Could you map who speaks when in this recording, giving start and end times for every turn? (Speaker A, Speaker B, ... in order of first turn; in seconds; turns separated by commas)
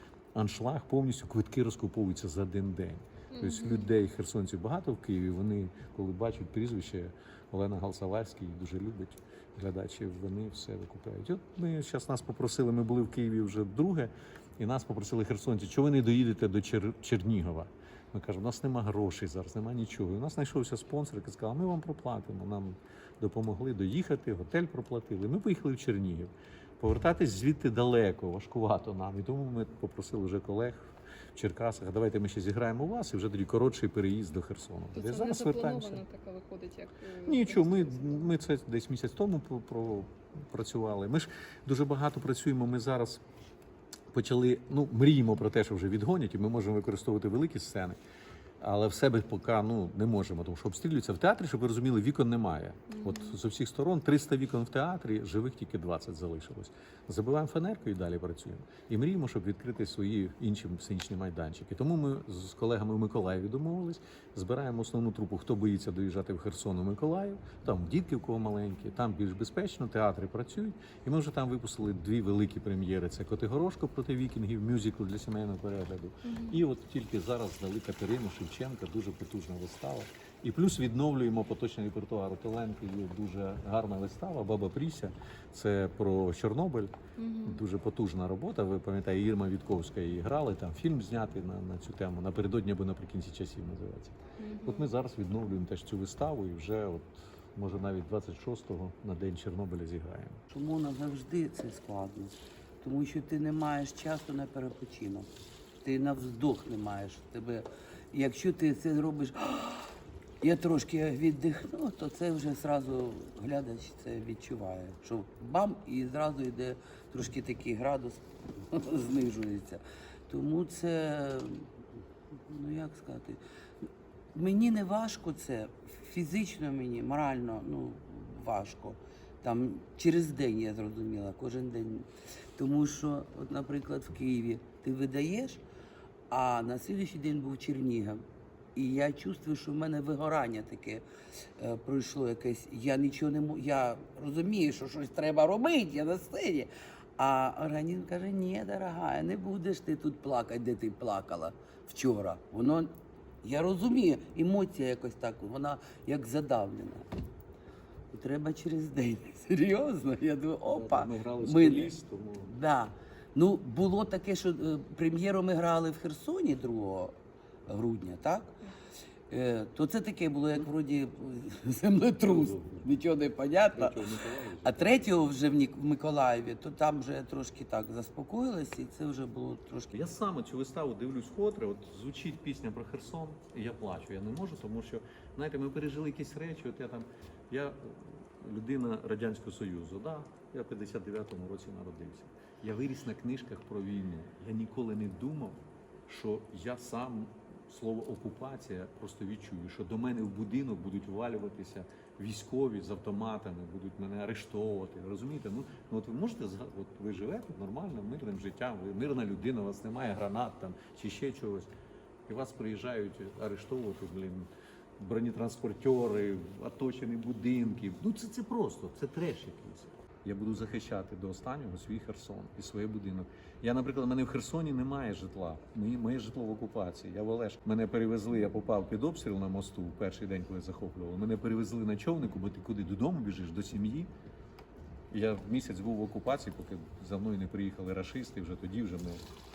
Speaker A: 0.3-36.0, Speaker B: 3.3-3.9, Speaker B: 35.0-38.3, Speaker A: 37.3-43.2, Speaker A: 44.1-48.0, Speaker A: 48.6-86.9, Speaker B: 52.9-53.4, Speaker B: 76.2-76.6, Speaker B: 87.2-87.6, Speaker A: 87.4-100.4, Speaker B: 94.4-94.9, Speaker C: 100.5-105.3, Speaker C: 105.8-121.7, Speaker C: 122.5-123.4, Speaker C: 124.3-135.6, Speaker C: 136.3-138.2, Speaker C: 138.8-141.0, Speaker C: 141.6-152.9, Speaker C: 153.4-157.1, Speaker C: 158.1-167.2, Speaker A: 160.7-162.5, Speaker C: 167.7-168.6, Speaker C: 169.3-180.0, Speaker A: 172.2-172.9, Speaker A: 173.7-175.0, Speaker A: 179.9-211.7, Speaker A: 212.3-234.1, Speaker A: 235.1-239.2